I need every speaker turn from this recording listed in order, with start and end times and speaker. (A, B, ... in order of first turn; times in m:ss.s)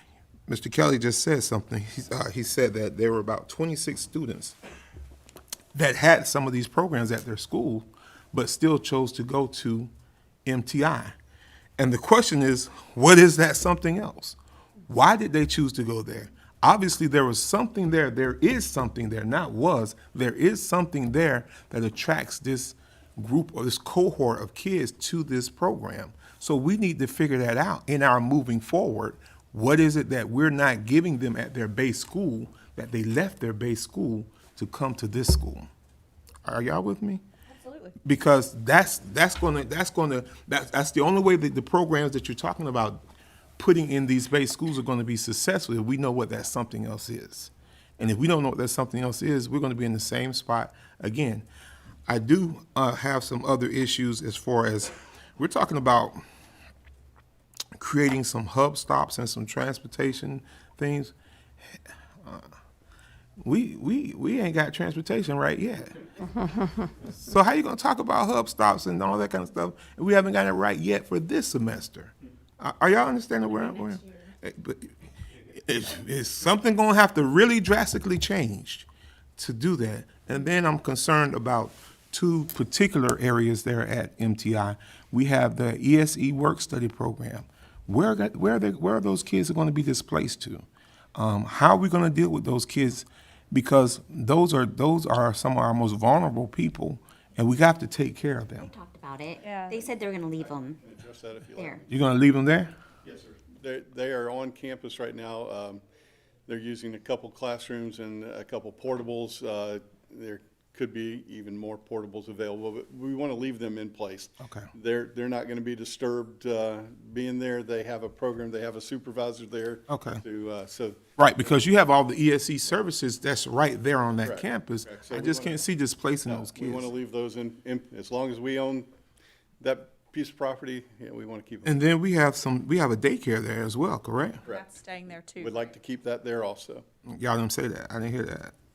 0:00.5-0:04.6 A
0:05.7-0:09.9 A
0:10.5-0:11.1 A
0:11.8-0:14.4 A
0:14.9-0:35.7 A
0:36.4-0:37.2 A
0:37.5-0:37.9 B
0:38.0-0:43.0 A
0:43.6-0:51.4 A
0:52.1-0:56.2 A
0:57.8-1:01.1 A
1:02.2-1:02.5 A
1:03.4-1:06.0 A
1:07.0-1:14.9 A
1:15.6-1:38.7 A
1:38.6-1:40.8 C
1:39.4-1:39.8 B
1:40.4-1:42.1 D
1:41.6-1:41.8 C
1:41.9-1:42.7 A
1:43.0-1:45.8 D
1:46.5-2:01.0 D
1:54.4-1:54.7 A
1:59.9-2:00.2 A
2:01.2-2:06.9 A
2:04.2-2:05.6 D
2:06.3-2:08.9 D
2:09.6-2:11.8 D
2:11.6-2:14.4 A
2:14.4-2:14.8 D
2:14.5-2:15.6 B
2:15.4-2:16.8 D
2:17.1-2:18.5 A